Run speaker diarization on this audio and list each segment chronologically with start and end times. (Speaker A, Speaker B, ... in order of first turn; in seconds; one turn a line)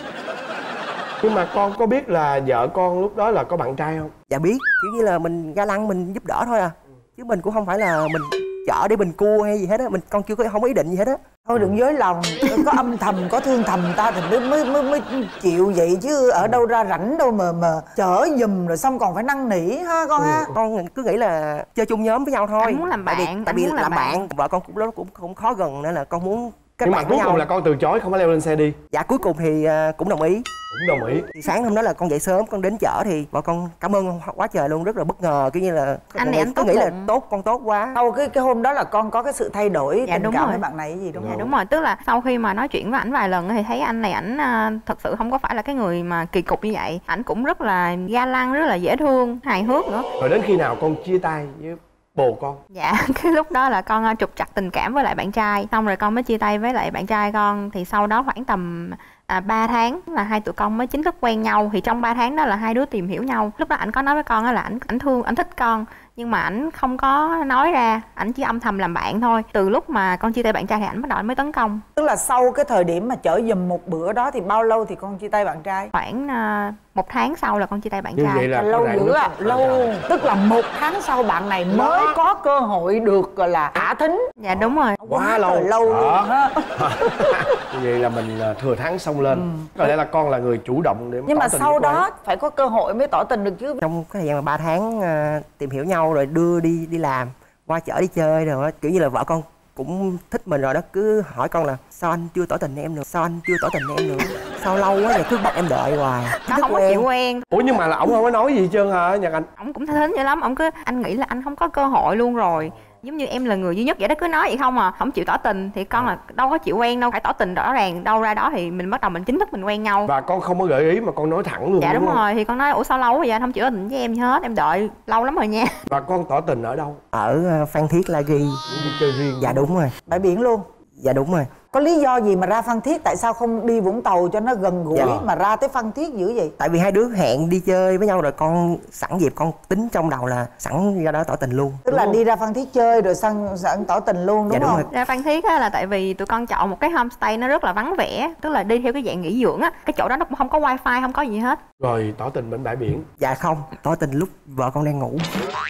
Speaker A: 1.2-4.1
Speaker B: 4.3-11.2
Speaker C: 11.4-20.5
Speaker A: 20.2-20.5
Speaker B: 20.5-27.5
Speaker D: 22.6-24.2
Speaker A: 26.8-28.8
Speaker B: 28.9-30.4
Speaker A: 30.7-31.3
Speaker B: 31.4-38.0
Speaker D: 36.1-37.1
Speaker C: 38.0-41.5
Speaker D: 40.1-40.6
Speaker A: 41.2-41.5
Speaker D: 41.2-50.1
Speaker A: 50.2-52.6
Speaker D: 52.7-71.8
Speaker C: 72.0-75.9
Speaker D: 75.9-78.5
Speaker A: 78.2-80.3
Speaker C: 78.5-84.2
Speaker A: 81.7-82.2
Speaker D: 84.4-85.0
Speaker A: 84.5-92.0
Speaker C: 85.0-87.5
Speaker C: 89.3-90.0
Speaker C: 91.3-93.8
Speaker B: 93.8-107.1
Speaker D: 106.4-107.5
Speaker A: 107.5-109.5
Speaker D: 109.6-120.1
Speaker A: 120.1-122.2
Speaker D: 121.8-125.8
Speaker A: 125.9-127.0
Speaker B: 127.1-128.7
Speaker A: 128.7-129.7
Speaker B: 129.4-129.9
Speaker C: 130.1-130.7
Speaker B: 131.0-131.6
Speaker C: 131.7-136.5
Speaker B: 136.6-141.9
Speaker C: 141.9-144.9
Speaker A: 141.9-142.2
Speaker B: 144.5-144.9
Speaker D: 144.9-151.6
Speaker A: 151.8-153.1
Speaker B: 153.2-155.3